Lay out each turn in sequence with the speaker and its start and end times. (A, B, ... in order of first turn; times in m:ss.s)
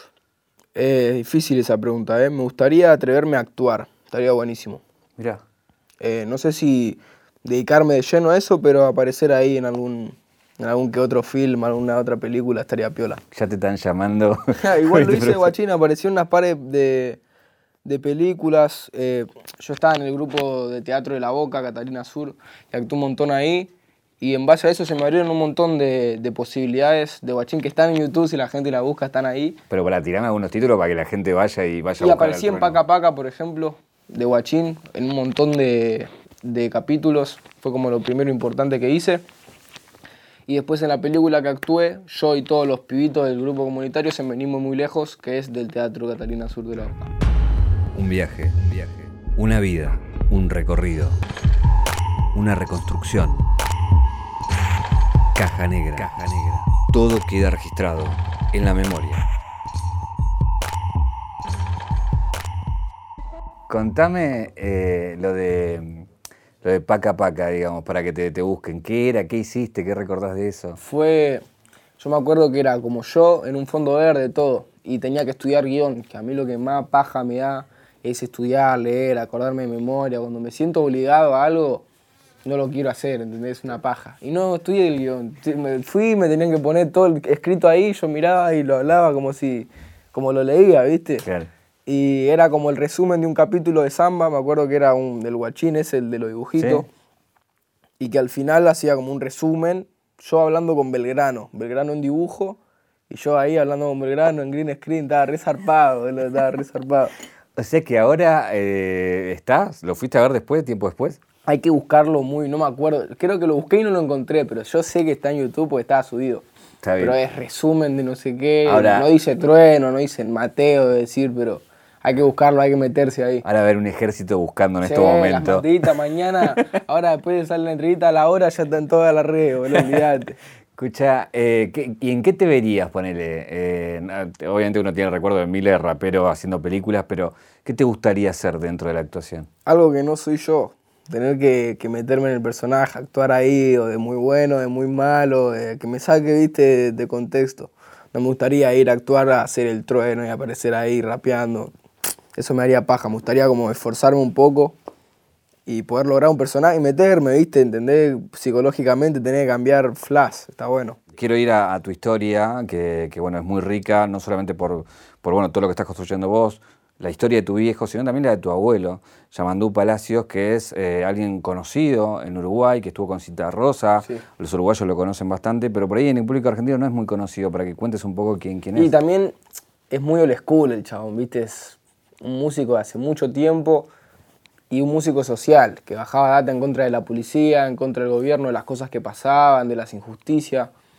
0:00.8-0:04.8 A
0:06.0-0:13.2 A
0:13.3-0:15.5 B
0:14.6-0:17.2 A
0:17.8-0:29.6 A
0:29.7-0:32.8 B
0:32.0-0:39.2 A
0:40.5-0:47.1 A
0:47.9-0:51.2 B
0:52.3-0:53.5 B
0:55.4-0:59.2 B
1:03.7-1:06.1 B
1:06.6-1:10.8 B
1:10.8-1:11.4 A
1:12.0-1:21.8 A
1:22.4-1:31.2 A
1:31.2-1:31.5 B
1:31.9-1:36.9 A
1:36.6-1:36.9 B
1:38.0-1:42.6 A
1:43.1-1:47.1 A
1:47.6-1:51.2 B
1:51.5-1:56.4 A
1:56.8-1:57.2 B
1:57.0-2:03.4 A
1:58.7-1:59.1 B
2:03.4-2:05.7 B
2:04.8-2:10.4 A
2:10.8-2:19.5 B
2:19.7-2:31.7 A
2:32.4-2:34.8 A
2:35.7-2:41.0 A
2:41.2-2:58.9 B
2:58.8-2:59.4 A
2:59.9-3:03.9 A
3:04.7-3:10.7 A